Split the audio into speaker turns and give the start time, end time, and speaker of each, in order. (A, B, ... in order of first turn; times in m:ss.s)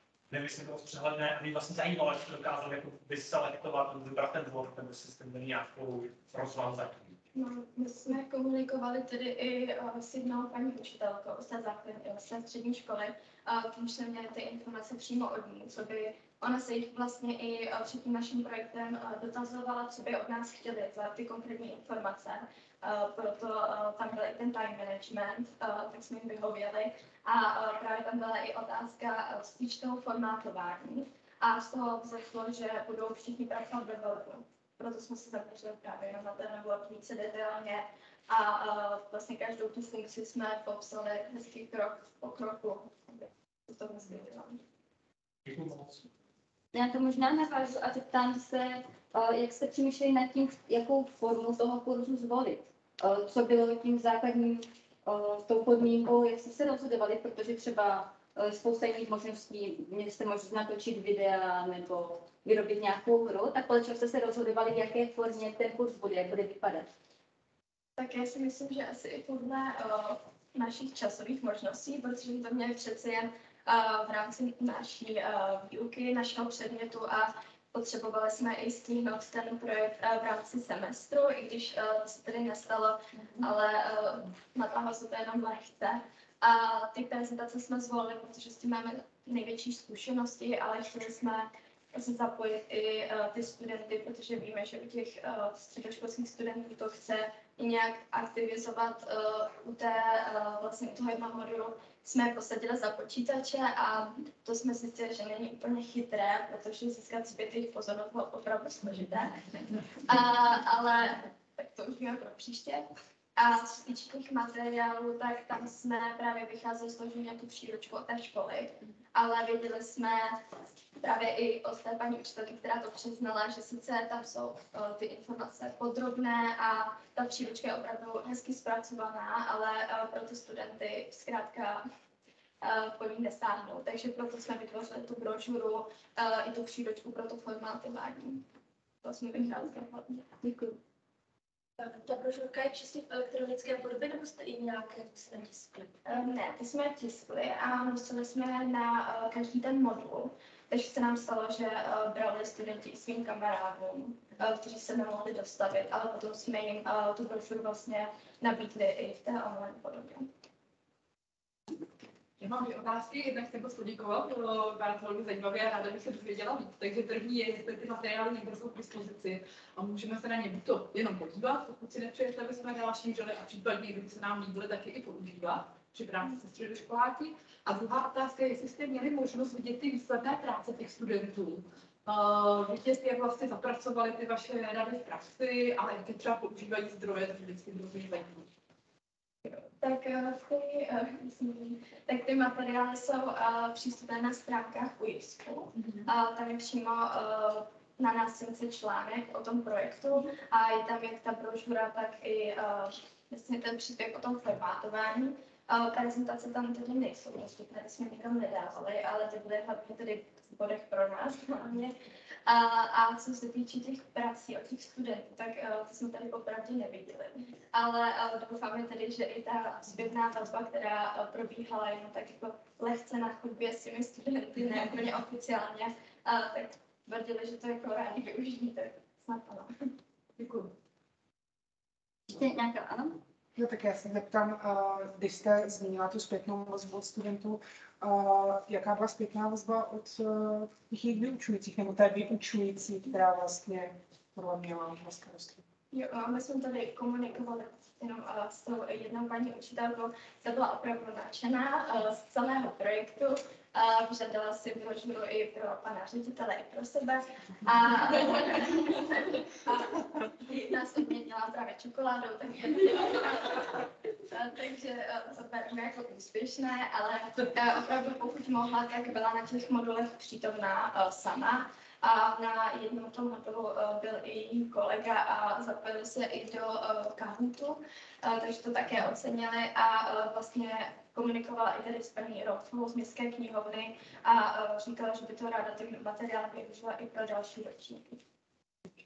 0:00.3-0:07.1 A
0:07.3-0:44.6 B
0:45.5-0:46.0 A
0:46.7-1:06.9 C
1:08.0-2:00.4 B
2:01.0-2:11.8 B
2:12.6-2:18.5 B
2:19.0-2:20.4 B
2:23.2-2:25.9 D
2:26.0-2:40.3 B
2:42.4-3:08.5 E
3:09.4-3:32.0 B
3:15.8-3:16.0 E
3:32.5-3:49.7 B
3:52.3-3:53.2 C
3:53.6-4:05.6 F
4:05.9-4:48.2 B